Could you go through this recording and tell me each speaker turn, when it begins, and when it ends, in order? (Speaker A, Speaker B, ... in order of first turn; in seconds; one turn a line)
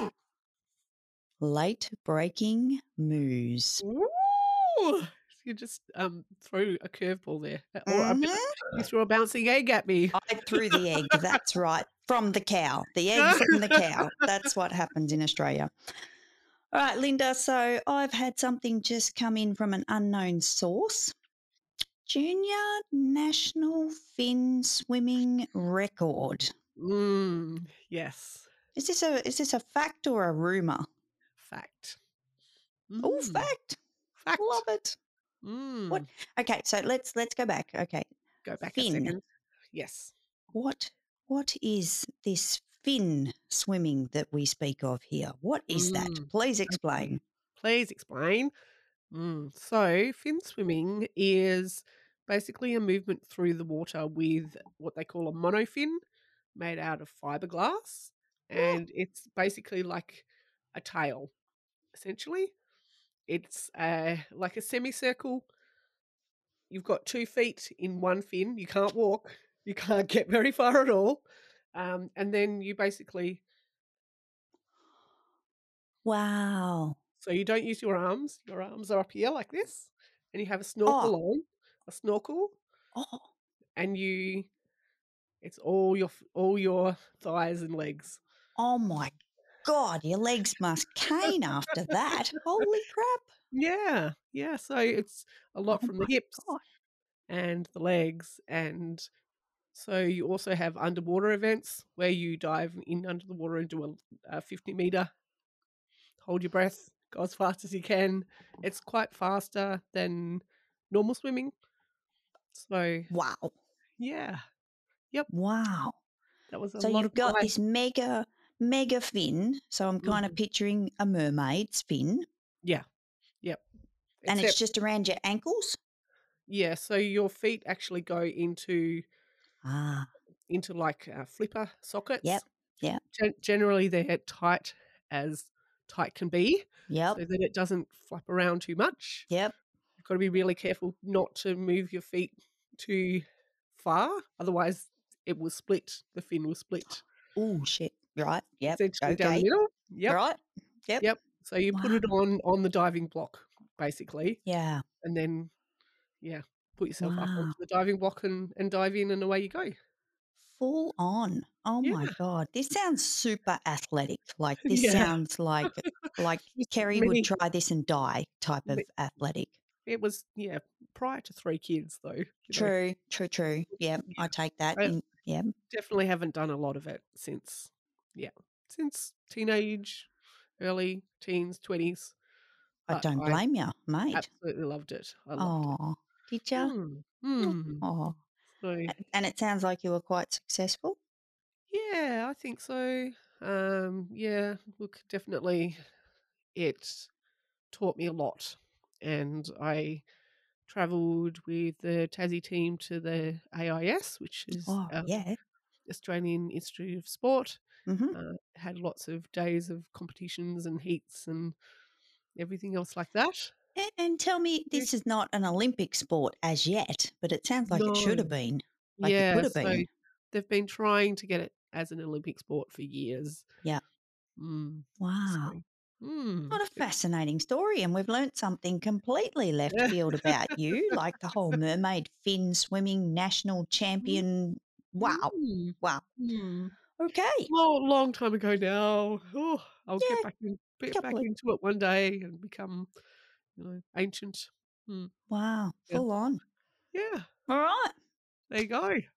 Speaker A: 1.4-3.8
Speaker B: 3.8-11.2
Speaker A: 7.9-8.5
Speaker A: 10.1-15.7
Speaker B: 13.2-14.2
Speaker A: 16.7-21.1
Speaker A: 22.1-26.5
Speaker B: 26.8-28.5
Speaker A: 28.8-30.9
Speaker B: 31.4-32.0
Speaker B: 32.9-33.5
Speaker A: 33.0-33.8
Speaker B: 34.2-34.6
Speaker A: 34.4-35.0
Speaker B: 35.4-36.1
Speaker A: 35.9-38.1
Speaker B: 38.4-40.1
Speaker A: 38.6-39.2
Speaker A: 40.5-47.2
Speaker B: 45.7-48.5
Speaker B: 49.1-56.0
Speaker B: 56.5-61.3
Speaker B: 61.9-62.5
Speaker B: 63.3-65.5
Speaker B: 66.7-73.4
Speaker A: 76.0-77.0
Speaker B: 77.2-82.6
Speaker A: 80.9-81.1
Speaker A: 83.0-83.3
Speaker B: 83.8-84.5
Speaker B: 85.4-88.2
Speaker A: 88.6-89.1
Speaker A: 89.6-93.3
Speaker B: 93.5-96.5
Speaker A: 95.7-96.6
Speaker B: 97.3-99.0
Speaker B: 99.7-105.1
Speaker B: 106.2-111.5
Speaker B: 112.5-113.1
Speaker A: 113.1-113.5
Speaker B: 114.0-114.4
Speaker A: 115.3-116.0
Speaker B: 116.5-117.5
Speaker A: 116.8-122.2
Speaker B: 120.0-120.4
Speaker B: 124.2-124.6
Speaker A: 124.3-125.8
Speaker B: 126.5-129.0
Speaker A: 129.6-130.1
Speaker B: 130.5-132.4
Speaker A: 132.2-133.0
Speaker B: 133.1-139.3
Speaker A: 136.9-137.2
Speaker A: 139.3-139.6
Speaker B: 140.0-143.2
Speaker B: 143.8-147.1
Speaker A: 147.4-149.5
Speaker B: 148.7-150.2
Speaker A: 150.1-151.1
Speaker B: 151.0-154.4
Speaker A: 151.7-152.1
Speaker A: 154.5-154.8
Speaker B: 155.0-155.5
Speaker B: 156.2-159.7
Speaker A: 157.0-157.6
Speaker A: 160.6-169.6
Speaker B: 161.8-162.2
Speaker B: 164.7-167.3
Speaker B: 169.8-172.7
Speaker A: 172.5-175.5
Speaker B: 175.7-182.2
Speaker A: 182.9-184.3
Speaker B: 182.9-183.4
Speaker B: 184.1-185.7
Speaker A: 185.4-186.7
Speaker B: 186.6-187.8
Speaker A: 187.4-188.2
Speaker B: 188.6-188.9
Speaker A: 188.9-191.0
Speaker B: 191.7-195.8
Speaker B: 196.5-197.1
Speaker B: 197.7-200.0
Speaker B: 200.7-205.2
Speaker A: 204.6-205.4
Speaker B: 205.9-207.6
Speaker A: 207.9-208.2
Speaker B: 208.1-211.6
Speaker B: 212.3-213.5
Speaker A: 213.8-219.8
Speaker B: 217.7-218.3
Speaker B: 219.0-223.5
Speaker B: 224.4-226.6
Speaker A: 225.0-225.6
Speaker A: 226.5-236.1
Speaker B: 229.7-231.0
Speaker B: 235.0-236.7
Speaker A: 237.0-237.5
Speaker B: 237.5-242.9
Speaker A: 240.0-240.3
Speaker A: 240.9-241.3
Speaker B: 243.6-245.1
Speaker A: 245.3-246.4
Speaker B: 246.9-247.3
Speaker A: 247.5-247.9
Speaker B: 248.5-249.0